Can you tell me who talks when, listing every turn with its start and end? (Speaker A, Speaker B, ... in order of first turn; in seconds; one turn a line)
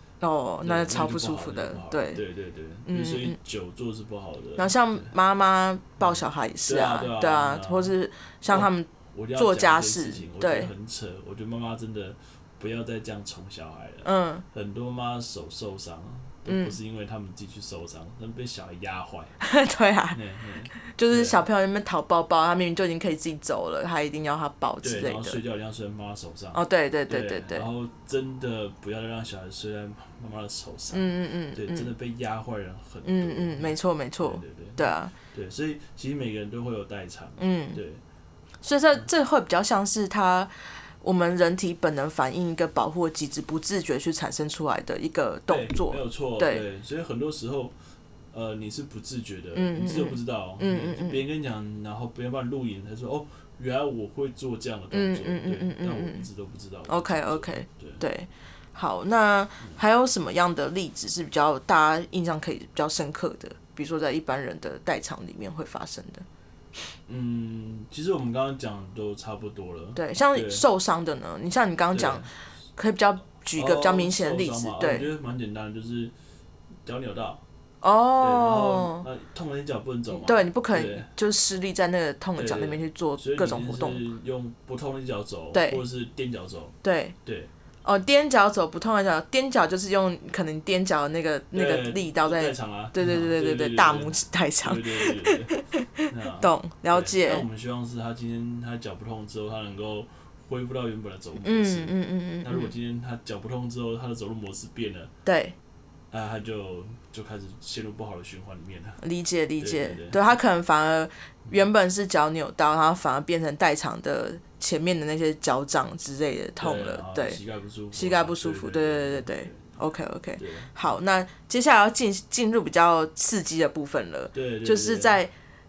Speaker A: 0.2-2.2
Speaker B: 0.6-5.1
Speaker A: 2.8-3.4
Speaker A: 4.6-10.7
Speaker B: 6.0-8.0
Speaker B: 8.5-19.4
Speaker A: 14.0-14.4
Speaker A: 16.5-16.7
Speaker A: 19.4-20.2
Speaker B: 20.1-21.4
Speaker A: 20.7-25.4
Speaker B: 24.8-38.0
Speaker A: 26.5-27.7
Speaker A: 30.9-31.9
Speaker A: 33.0-35.1
Speaker A: 37.4-37.8
Speaker A: 38.6-46.6
Speaker B: 45.5-47.7
Speaker B: 48.3-58.0
Speaker A: 49.5-51.2
Speaker A: 54.9-56.2
Speaker A: 56.9-66.2
Speaker B: 67.1-70.6
Speaker A: 70.0-75.1
Speaker B: 71.9-72.3
Speaker B: 73.5-76.1
Speaker B: 76.8-77.4
Speaker A: 77.8-79.0
Speaker B: 78.2-81.1
Speaker A: 80.1-84.0
Speaker B: 82.4-87.5
Speaker A: 85.5-85.8
Speaker A: 86.8-87.2
Speaker A: 87.8-97.4
Speaker B: 91.5-105.1
Speaker A: 101.4-102.7
Speaker A: 105.2-105.5
Speaker B: 106.1-109.0
Speaker A: 109.0-117.4
Speaker B: 109.6-110.2
Speaker B: 116.6-119.7
Speaker A: 117.9-125.3
Speaker B: 120.4-120.7
Speaker B: 124.3-125.2